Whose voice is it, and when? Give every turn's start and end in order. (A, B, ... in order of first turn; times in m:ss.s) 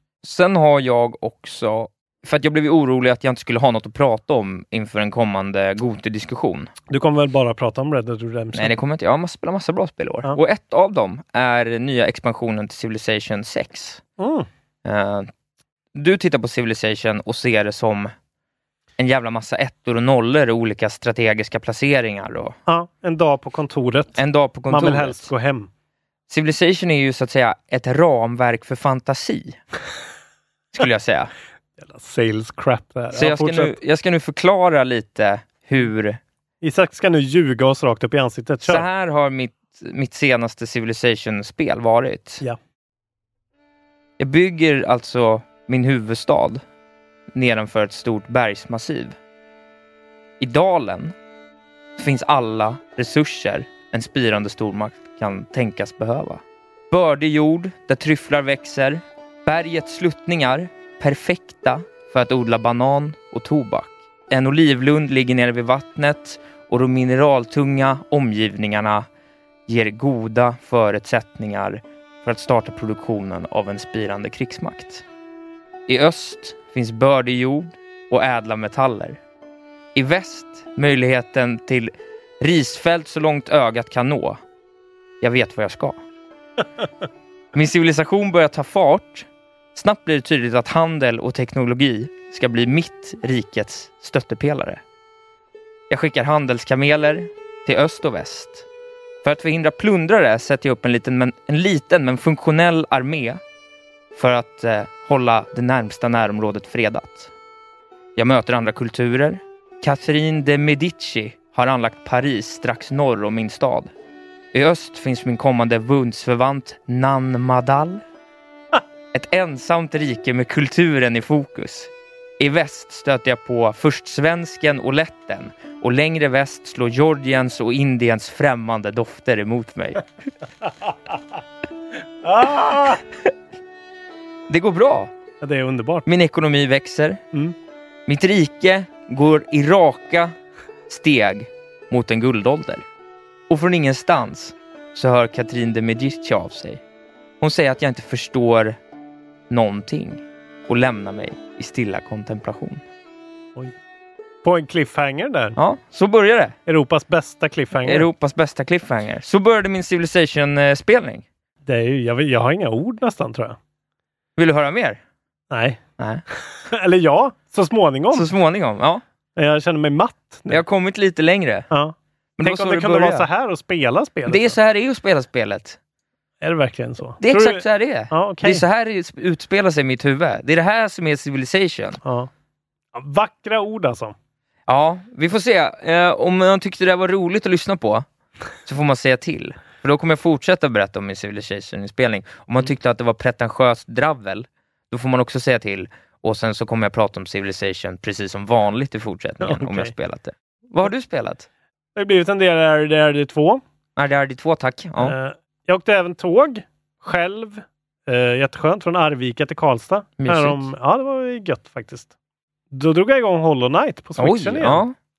0:00.2-0:06.7 A
0:06.9-0:08.7 B
0:08.5-0:14.0 A
0:14.2-0:14.5 B
0:14.8-0:15.3 A
0:15.9-0:18.1 A
0:19.0-0:22.6 A
0:22.7-0:25.7 B
0:24.2-0:25.3 A
0:26.3-0:29.6 A
0:30.7-0:31.3 A
0:31.8-0:33.7 B
0:33.1-0:36.2 A
0:36.6-0:38.8 B
0:38.6-0:42.4 A
0:44.2-0:46.6 A
0:47.3-0:49.2 A
0:50.4-0:51.1 A
0:52.0-1:09.1 A
1:09.7-1:15.0 A
1:15.9-1:19.2 A
1:19.9-1:24.4 A
1:25.2-1:26.0 A
1:27.5-1:34.8 A
1:35.9-1:38.6 A
1:39.2-1:43.4 A
1:44.1-1:47.3 A
1:48.2-1:53.9 A
1:54.5-1:58.0 A
1:59.1-2:10.0 A
2:12.2-2:13.0 B
2:14.5-2:15.1 A
2:15.4-2:16.0 B
2:16.0-2:17.2 A
2:18.0-2:20.3 A
2:20.9-2:22.8 A
2:23.5-2:26.8 A
2:27.4-2:28.8 A
2:29.5-2:32.8 A
2:34.4-2:35.6 B
2:35.6-2:36.6 A
2:36.6-2:38.1 B
2:37.8-2:41.2 A
2:41.6-2:43.6 B
2:44.4-2:45.0 A
2:45.5-2:45.8 B
2:46.0-2:46.2 A
2:46.4-2:48.3 B
2:48.1-2:49.0 A
2:49.4-2:50.6 B
2:50.5-2:51.7 A
2:51.7-2:54.6 B
2:52.4-2:53.3 A
2:54.2-2:55.8 A
2:56.4-2:58.6 B
2:57.2-3:02.0 A
3:02.0-3:02.3 B
3:02.9-3:04.1 B
3:04.7-3:08.0 A
3:08.6-3:21.4 A
3:19.4-3:19.9 B
3:22.0-3:23.6 B
3:24.0-3:25.2 A
3:25.0-3:32.1 B
3:30.2-3:30.7 A
3:32.7-3:34.8 B
3:34.2-3:34.9 A